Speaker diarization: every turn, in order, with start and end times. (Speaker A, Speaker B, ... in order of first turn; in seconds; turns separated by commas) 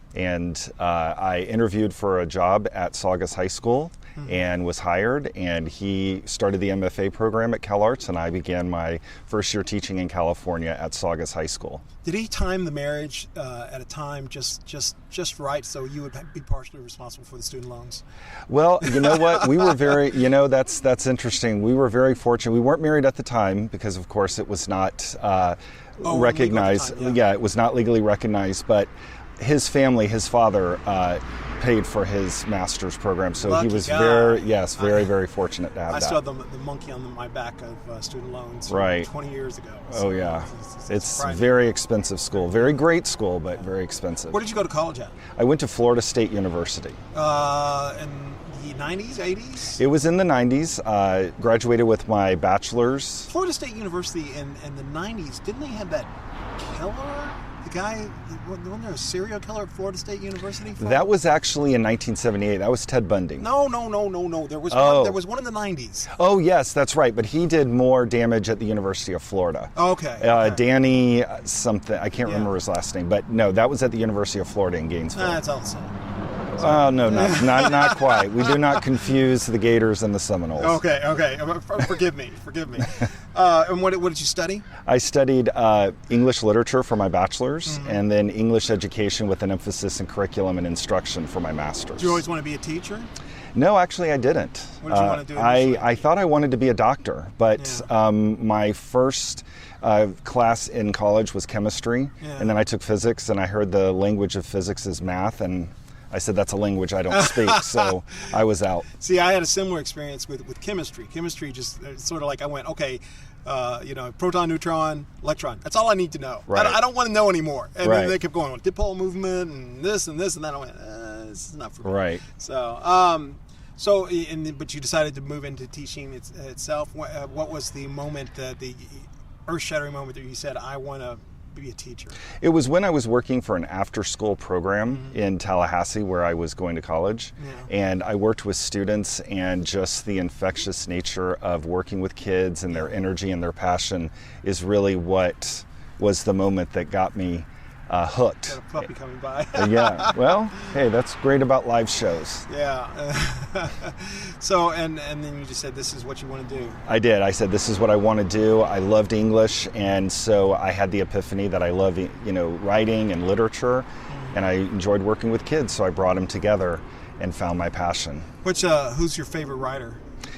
Speaker A: 0.1-11.8, Speaker B: 4.2-4.4, Speaker B: 12.0-18.0, Speaker A: 18.5-36.2, Speaker B: 18.9-19.5, Speaker B: 26.0-27.2, Speaker B: 33.4-35.1, Speaker B: 35.9-41.7, Speaker A: 38.7-39.1, Speaker A: 39.9-44.4, Speaker B: 44.3-45.2, Speaker A: 45.4-47.0, Speaker B: 47.1-49.8, Speaker A: 49.8-53.3, Speaker B: 53.3-61.1, Speaker A: 60.8-63.5, Speaker B: 63.4-66.1, Speaker A: 64.7-65.2, Speaker A: 66.1-75.4, Speaker B: 69.7-70.6, Speaker B: 72.2-72.5, Speaker B: 75.1-75.9, Speaker A: 76.5-80.8, Speaker B: 76.6-78.8, Speaker B: 80.5-84.7, Speaker A: 84.8-92.2, Speaker B: 87.7-88.0, Speaker B: 92.0-93.1, Speaker A: 93.5-108.9, Speaker B: 94.8-96.0, Speaker B: 97.5-97.9, Speaker B: 102.2-102.5, Speaker B: 107.1-107.9, Speaker B: 109.0-132.2, Speaker A: 116.5-116.8, Speaker A: 117.8-118.2, Speaker A: 121.8-122.2, Speaker A: 132.4-148.6, Speaker B: 134.8-135.2, Speaker B: 137.4-137.7, Speaker B: 142.7-143.0, Speaker B: 148.4-150.3, Speaker A: 149.5-152.4, Speaker B: 152.5-156.8, Speaker A: 156.8-168.3, Speaker B: 164.1-164.4, Speaker B: 168.4-170.0